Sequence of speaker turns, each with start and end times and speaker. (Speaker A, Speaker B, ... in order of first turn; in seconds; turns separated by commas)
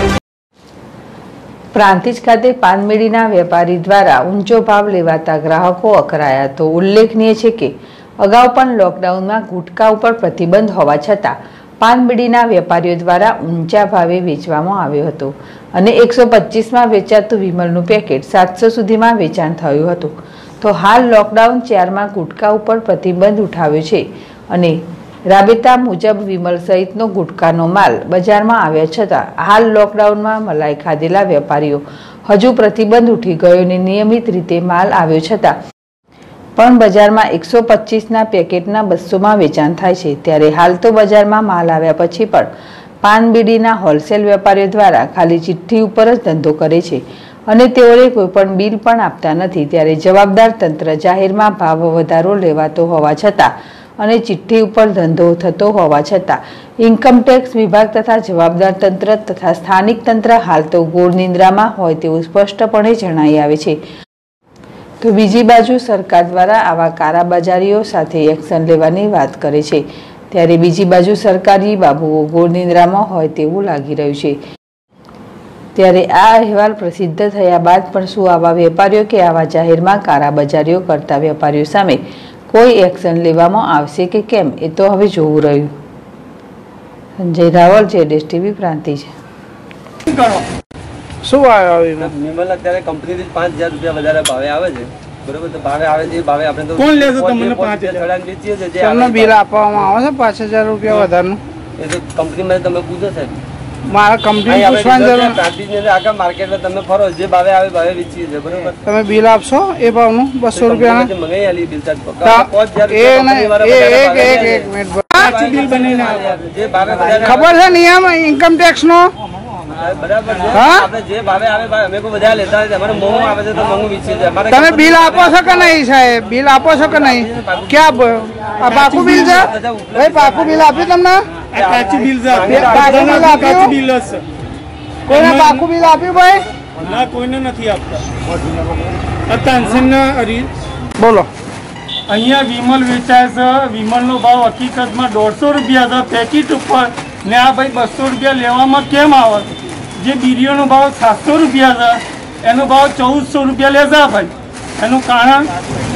Speaker A: 1.7-35.5, Speaker A: 36.6-42.5, Speaker A: 43.0-63.8, Speaker A: 65.0-74.4, Speaker A: 75.7-85.7, Speaker A: 87.2-89.1, Speaker B: 90.1-90.4, Speaker C: 91.2-92.1, Speaker D: 92.0-99.4, Speaker B: 96.8-98.1, Speaker C: 98.8-101.4, Speaker D: 101.8-103.4, Speaker C: 103.9-105.4, Speaker D: 104.5-108.8, Speaker C: 108.8-111.1, Speaker D: 110.5-117.5, Speaker C: 112.2-115.3, Speaker B: 115.2-116.2, Speaker C: 117.2-119.1, Speaker D: 119.8-125.7, Speaker C: 120.5-120.9, Speaker C: 124.5-131.3, Speaker D: 127.0-127.8, Speaker D: 128.6-130.7, Speaker B: 131.5-134.2, Speaker D: 131.6-133.5, Speaker C: 132.5-133.7, Speaker B: 135.1-135.7, Speaker C: 135.1-136.4, Speaker B: 136.8-138.0, Speaker B: 139.3-140.5, Speaker C: 141.0-141.3, Speaker B: 142.1-155.5